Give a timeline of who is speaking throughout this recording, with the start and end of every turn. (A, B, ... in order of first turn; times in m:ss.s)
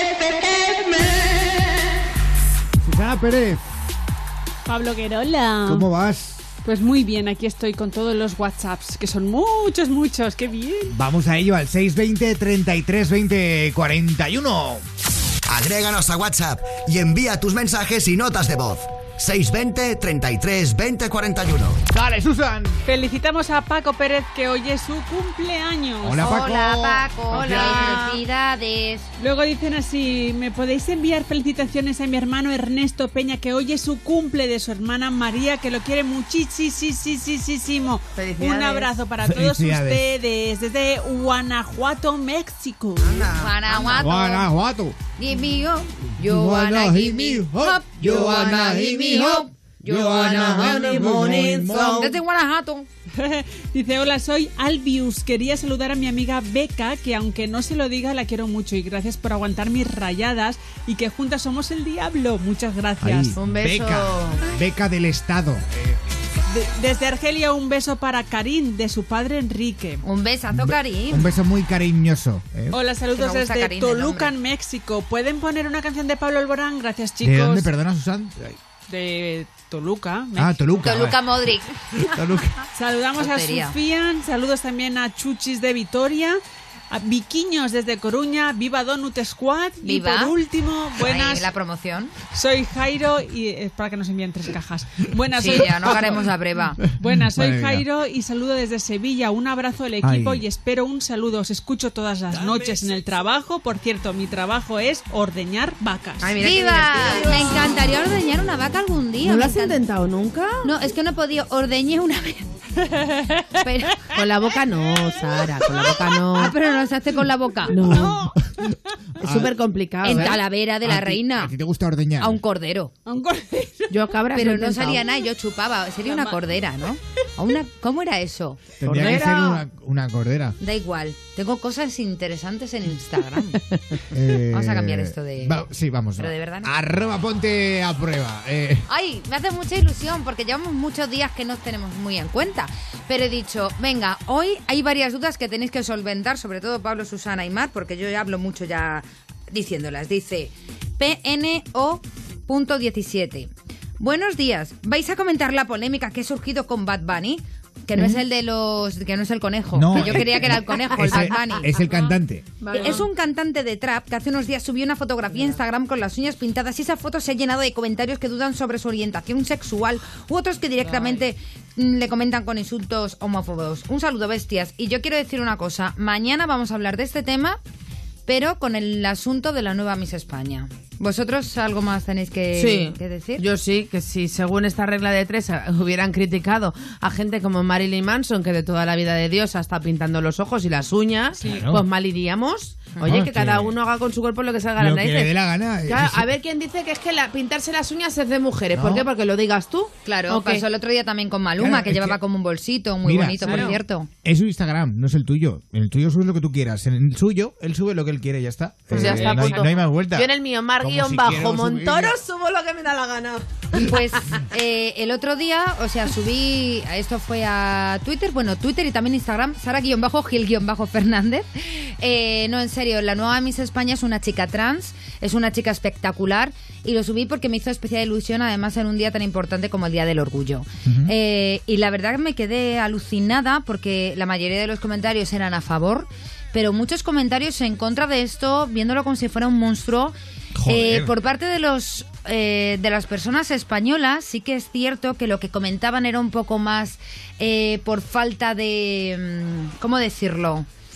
0:02.8-0:03.6 A
0:04.6-0:05.8 B
0:05.6-0:06.4 A
0:06.6-0:11.0 B
0:10.9-0:14.8 A
0:15.5-0:21.8 C
0:21.9-0:22.8 A
0:22.8-0:26.3 B
0:26.0-0:28.1 A
0:26.2-0:29.1 D
0:27.3-0:28.1 B
0:29.2-0:43.2 B
0:38.1-0:38.9 E
0:39.2-0:40.0 A
0:43.0-0:43.6 E
0:43.4-0:44.5 D
0:43.7-0:45.0 A
0:45.2-0:51.1 D
0:46.1-0:52.2 A
0:50.2-0:52.1 E
0:51.8-0:52.9 D
0:53.2-1:03.4 B
1:03.0-1:06.0 A
1:03.4-1:04.4 E
1:06.5-1:10.0 B
1:10.0-1:11.3 D
1:10.5-1:12.8 A
1:12.7-1:17.7 B
1:13.1-1:14.3 D
1:17.2-1:18.6 A
1:18.9-1:20.6 B
1:20.4-1:21.2 A
1:20.8-1:21.7 D
1:21.9-1:22.6 A
1:22.7-1:26.4 B
1:23.2-1:23.7 D
1:26.9-1:31.5 B
1:29.8-1:30.3 D
1:31.0-1:32.1 D
1:32.3-1:36.3 B
1:35.3-1:36.8 D
1:35.8-1:36.1 A
1:36.8-1:37.8 A
1:37.0-1:46.4 B
1:40.0-1:40.4 A
1:46.2-1:47.8 E
1:46.4-1:49.8 D
1:49.2-1:50.7 E
1:50.6-1:52.5 D
1:52.8-1:54.1 B
1:54.1-1:56.5 E
1:56.3-1:57.8 D
1:57.7-1:58.3 E
1:57.8-1:58.3 A
1:59.2-2:02.4 A
1:59.2-2:00.4 E
2:00.0-2:01.5 D
2:02.2-2:02.9 D
2:03.0-2:03.9 B
2:03.9-2:05.0 E
2:04.3-2:08.7 D
2:06.0-2:06.4 B
2:08.8-2:10.6 A
2:08.8-2:09.6 E
2:10.6-2:13.6 D
2:13.5-2:14.0 E
2:14.1-2:18.8 A
2:14.5-2:15.6 D
2:16.2-2:16.7 D
2:18.9-2:41.7 D
2:39.7-2:42.5 A
2:41.9-2:42.1 B
2:42.6-2:43.0 E
2:42.7-2:57.6 D
2:50.8-2:51.2 B
2:58.3-3:03.4 D
3:02.5-3:15.3 E
3:11.4-3:11.8 A
3:13.0-3:13.8 A
3:14.8-3:16.3 A
3:15.9-3:20.6 E
3:18.7-3:19.1 A
3:20.0-3:24.1 D
3:21.6-3:22.2 A
3:23.0-3:32.2 A
3:23.4-3:23.8 E
3:28.9-3:33.4 E
3:29.0-3:29.6 B
3:33.8-4:00.1 D
3:50.8-3:51.1 A
4:00.5-4:01.1 A
4:00.7-4:10.7 D